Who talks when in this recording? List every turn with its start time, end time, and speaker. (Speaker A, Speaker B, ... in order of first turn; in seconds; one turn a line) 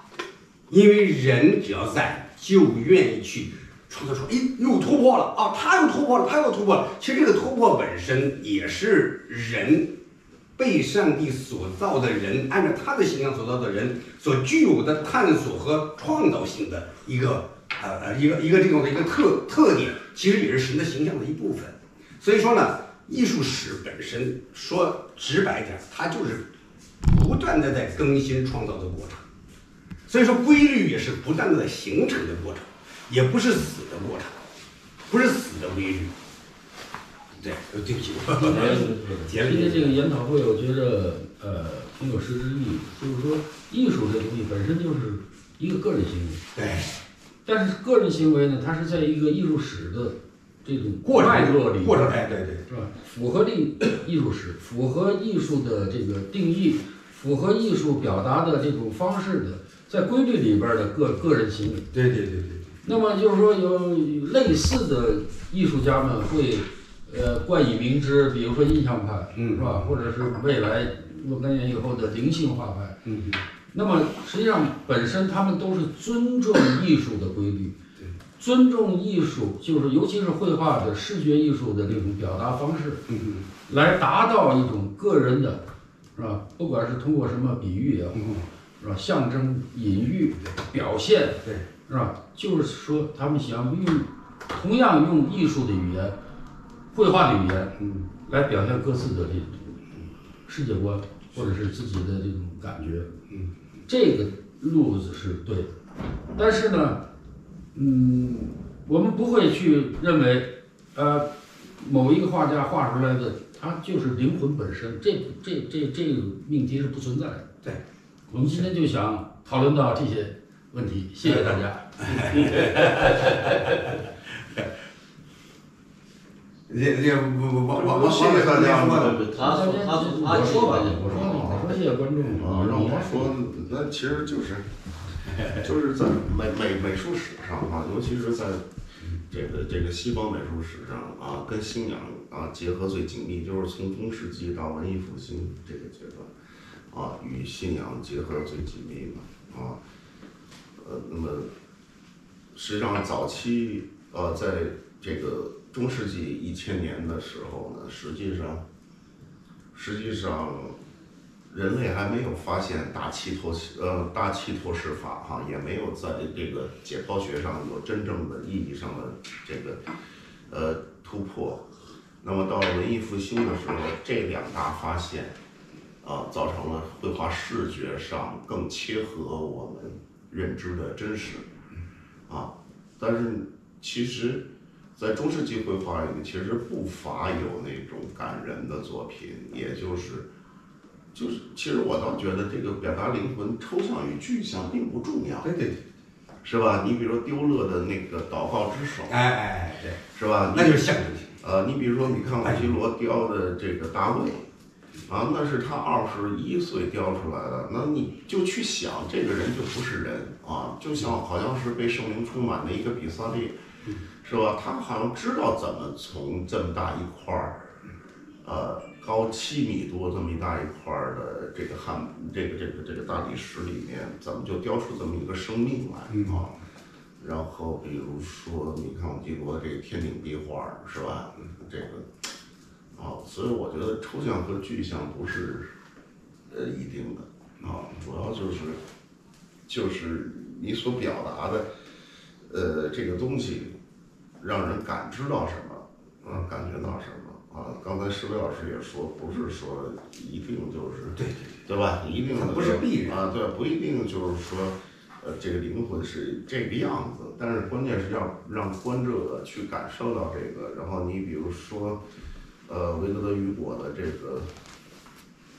Speaker A: 0.7-9.9
Speaker A: 10.6-26.5
Speaker A: 27.0-29.2
Speaker A: 30.1-34.4
Speaker A: 35.1-36.1
Speaker A: 37.4-40.0
Speaker B: 38.4-46.4
Speaker C: 38.4-39.4
Speaker A: 46.5-46.9
Speaker B: 47.5-52.2
Speaker A: 51.0-52.6
Speaker B: 52.7-61.9
Speaker A: 61.9-62.7
Speaker B: 62.8-73.0
Speaker A: 69.3-69.9
Speaker A: 73.0-73.4
Speaker B: 73.7-77.8
Speaker B: 78.4-83.0
Speaker A: 83.1-83.5
Speaker B: 83.7-85.6
Speaker B: 86.2-96.2
Speaker A: 88.1-88.4
Speaker B: 96.9-99.9
Speaker B: 100.5-103.1
Speaker B: 103.9-105.7
Speaker B: 106.3-107.0
Speaker B: 107.7-117.5
Speaker B: 118.3-122.4
Speaker A: 121.2-124.7
Speaker A: 126.7-129.2
Speaker D: 127.7-129.2
Speaker C: 128.9-131.8
Speaker B: 129.3-133.4
Speaker D: 132.3-134.7
Speaker A: 135.3-135.7
Speaker D: 135.4-138.7
Speaker D: 139.3-146.3
Speaker D: 146.9-149.8
Speaker D: 150.8-151.5
Speaker D: 152.5-158.6
Speaker D: 159.7-160.8
Speaker D: 161.5-169.8
Speaker D: 170.5-175.4
Speaker D: 176.0-181.5
Speaker D: 182.3-190.3
Speaker D: 191.1-195.5
Speaker A: 195.4-195.8
Speaker D: 196.4-199.1
Speaker A: 199.1-201.3
Speaker D: 200.2-200.8
Speaker D: 201.4-204.5
Speaker A: 202.2-202.8
Speaker D: 205.1-213.6
Speaker D: 214.2-217.7
Speaker D: 218.4-226.6
Speaker A: 226.1-226.4
Speaker D: 227.2-232.1
Speaker D: 232.9-235.7
Speaker D: 236.5-238.8
Speaker D: 239.7-241.7
Speaker D: 242.4-243.8
Speaker D: 244.4-262.0
Speaker A: 251.2-251.6
Speaker A: 252.3-253.2
Speaker D: 262.7-264.5